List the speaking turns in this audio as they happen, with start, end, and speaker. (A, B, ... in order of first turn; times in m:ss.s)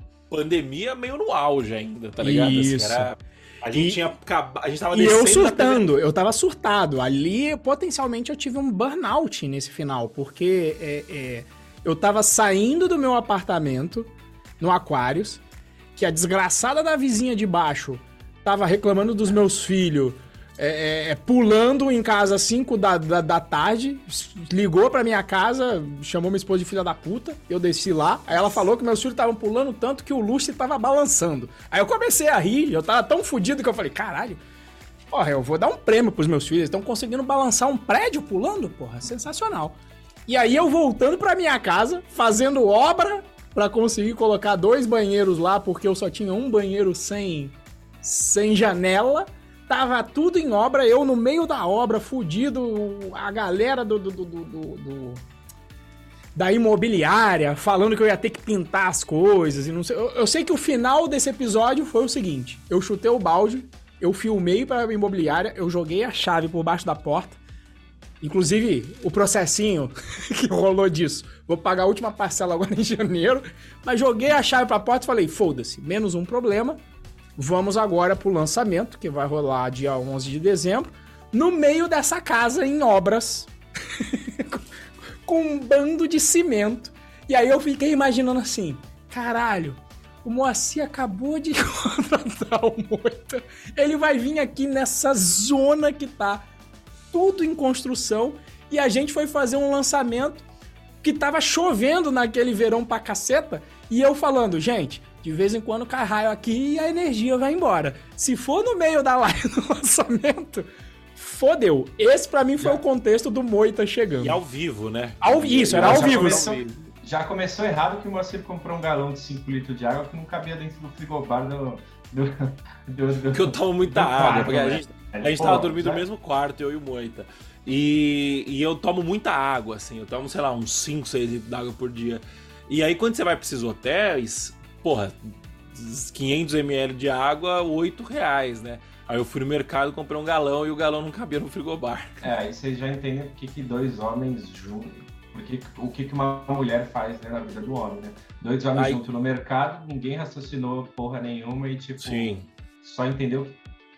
0:00.3-0:05.9 A
0:02.2-0:03.1 B
0:03.7-0:04.0 B
0:04.9-0:15.4 B
0:16.0-0:34.4 B
0:35.1-0:55.2 B
0:56.3-1:07.4 B
1:08.2-1:16.8 B
1:17.4-1:23.5 B
1:24.0-1:24.6 B
1:25.2-1:36.4 B
1:37.1-1:40.4 B
1:41.0-1:54.4 B
1:54.2-1:56.9 A
1:55.2-1:56.4 B
1:55.7-2:06.0 C
2:03.3-2:22.3 A
2:22.2-2:33.6 C
2:28.8-2:29.0 A
2:32.0-2:32.5 A